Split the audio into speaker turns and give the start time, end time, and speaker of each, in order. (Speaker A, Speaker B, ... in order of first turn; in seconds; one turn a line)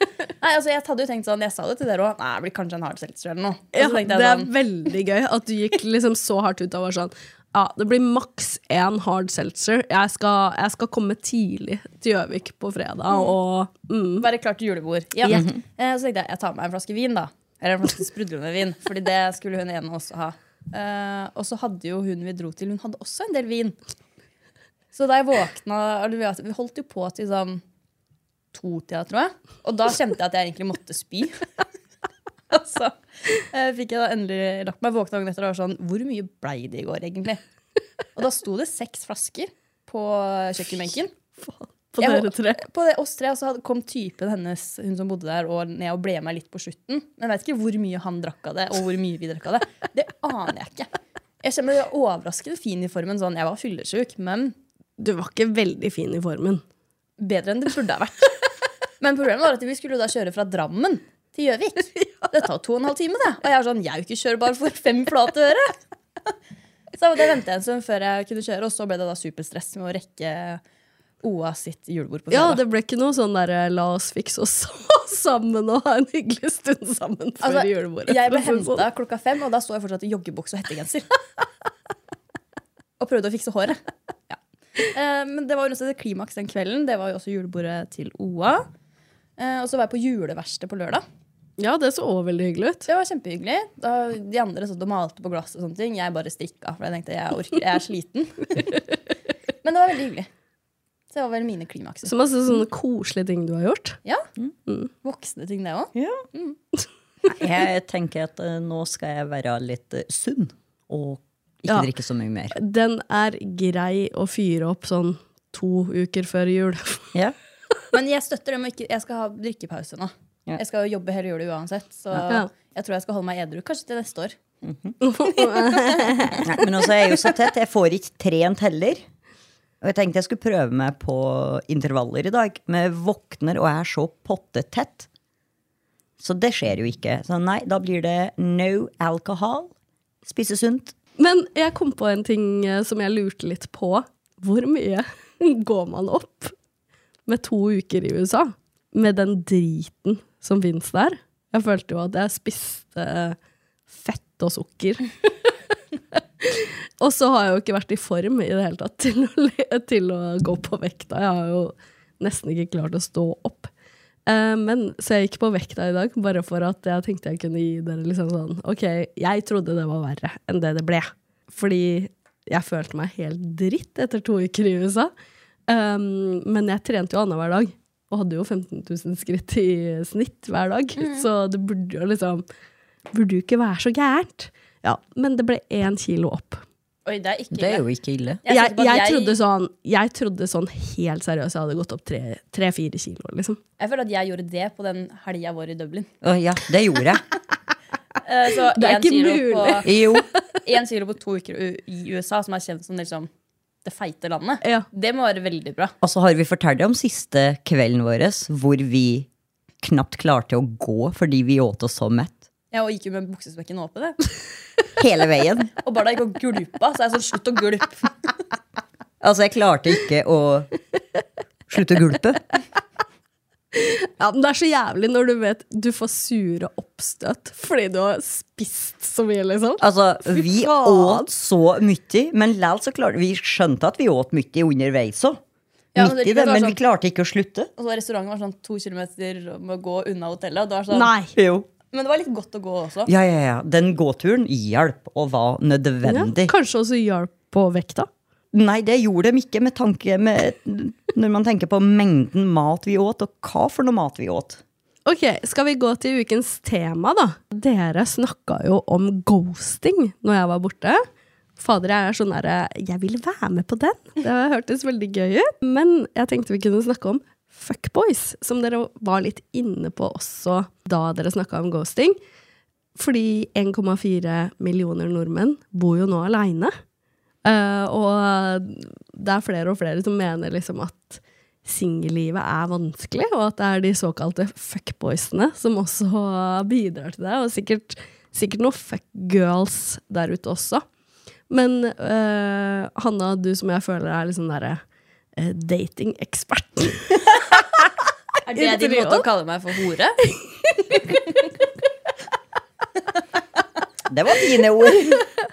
Speaker A: 0.4-4.5
Speaker B: 3.7-14.3
Speaker A: 13.1-13.3
Speaker A: 14.2-23.8
Speaker A: 24.9-27.6
Speaker A: 28.5-31.4
Speaker A: 32.5-37.4
Speaker A: 38.1-41.1
Speaker B: 41.4-42.6
Speaker A: 42.0-50.9
Speaker A: 51.4-54.5
Speaker B: 55.0-56.6
Speaker A: 57.2-58.4
Speaker A: 59.0-65.8
Speaker A: 67.0-70.6
Speaker A: 71.2-72.6
Speaker B: 72.3-78.8
Speaker A: 77.4-81.1
Speaker A: 83.0-88.7
Speaker A: 89.4-91.0
Speaker B: 91.6-92.8
Speaker A: 92.9-98.8
Speaker A: 99.6-100.3
Speaker A: 101.1-102.2
Speaker B: 102.0-104.0
Speaker A: 105.0-106.5
Speaker C: 105.9-106.2
Speaker C: 107.3-112.5
Speaker B: 112.5-117.0
Speaker A: 117.9-124.4
Speaker C: 124.6-125.0
Speaker B: 125.0-126.4
Speaker A: 125.6-126.4
Speaker C: 126.4-129.0
Speaker C: 129.8-135.1
Speaker C: 136.2-139.7
Speaker C: 140.2-140.9
Speaker B: 141.2-146.5
Speaker B: 147.2-153.3
Speaker B: 153.9-155.3
Speaker B: 156.1-163.7
Speaker B: 164.3-175.1
Speaker B: 175.7-182.4
Speaker A: 181.0-181.2
Speaker B: 183.1-186.6
Speaker A: 187.1-187.8
Speaker C: 187.5-188.4
Speaker A: 188.4-189.4
Speaker B: 188.5-193.6
Speaker A: 193.8-196.1
Speaker C: 196.2-197.2
Speaker A: 198.2-199.9
Speaker B: 198.8-200.2
Speaker C: 199.8-200.2
Speaker A: 200.6-203.3
Speaker A: 203.8-205.9
Speaker C: 206.0-209.3
Speaker C: 209.8-212.4
Speaker A: 212.7-214.2
Speaker C: 215.0-215.7
Speaker A: 215.8-218.1
Speaker C: 219.2-220.7
Speaker C: 221.7-222.4
Speaker B: 223.7-231.3
Speaker C: 229.8-235.4
Speaker A: 235.9-236.8
Speaker C: 235.9-237.7
Speaker A: 237.8-241.1
Speaker B: 240.9-241.3
Speaker C: 241.3-241.7
Speaker A: 241.9-243.1
Speaker C: 243.1-246.5
Speaker B: 246.0-248.1
Speaker C: 248.5-254.6
Speaker B: 255.1-261.0
Speaker B: 261.6-272.2
Speaker B: 272.9-276.7
Speaker B: 277.4-290.8
Speaker B: 291.5-294.8
Speaker B: 295.4-297.4
Speaker A: 298.4-300.2
Speaker B: 298.5-299.2
Speaker B: 300.7-301.0
Speaker C: 304.1-305.2